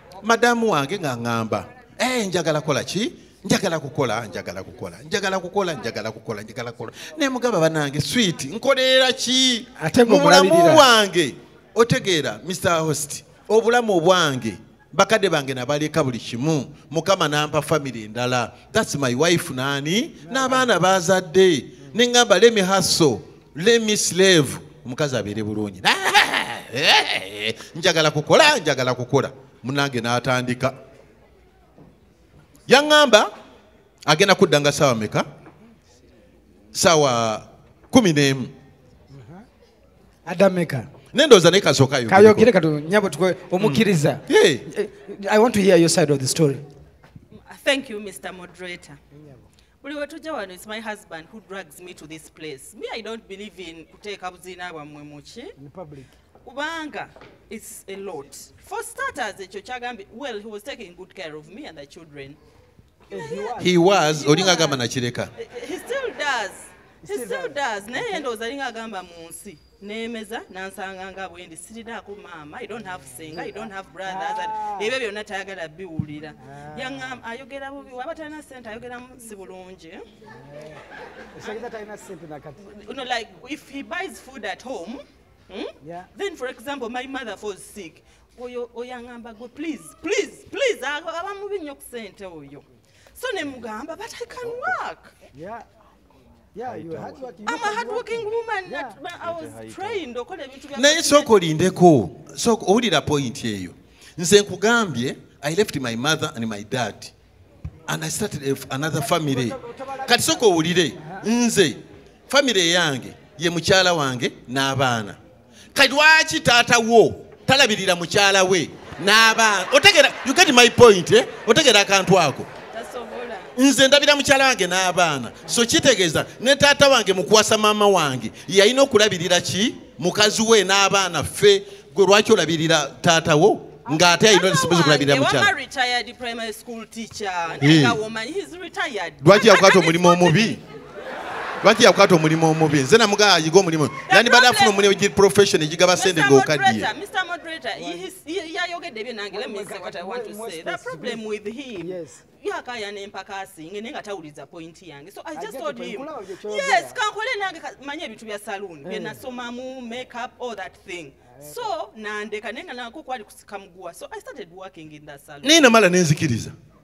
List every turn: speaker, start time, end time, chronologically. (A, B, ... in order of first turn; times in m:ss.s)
0:00.2-0:30.8 A
0:09.8-0:10.9 B
0:32.7-0:33.3 A
0:34.1-0:35.3 A
0:36.7-0:38.5 A
0:40.3-0:40.9 B
0:41.1-0:42.5 A
0:42.1-0:46.6 B
0:43.6-0:44.6 A
0:47.4-0:49.0 C
0:49.2-0:49.4 B
0:49.8-0:55.5 C
0:55.6-0:56.1 B
0:56.4-1:02.4 C
1:03.1-1:03.7 B
1:03.1-1:04.8 C
1:03.6-1:05.3 A
1:05.4-1:20.0 C
1:07.0-1:08.2 B
1:13.3-1:14.9 B
1:16.4-1:17.2 B
1:21.4-1:22.6 B
1:22.6-1:32.7 C
1:25.8-1:26.1 B
1:33.2-1:35.1 C
1:35.3-1:35.6 B
1:36.6-1:39.0 B
1:37.5-1:41.3 C
1:40.8-1:47.1 A
1:47.9-1:55.2 A
1:49.1-1:51.2 B
1:55.7-2:02.5 A
2:02.7-2:03.5 C
2:03.6-2:15.5 A
2:13.9-2:20.6 C
2:17.6-2:18.0 A
2:19.2-2:20.6 A
2:21.6-2:26.9 A
2:24.1-2:24.9 C
2:26.0-2:45.7 C
2:27.8-2:28.1 B
2:29.3-2:31.2 B
2:31.8-2:32.2 B
2:35.3-2:37.0 B
2:38.8-2:39.2 B
2:41.3-2:41.6 B
2:45.4-2:46.5 A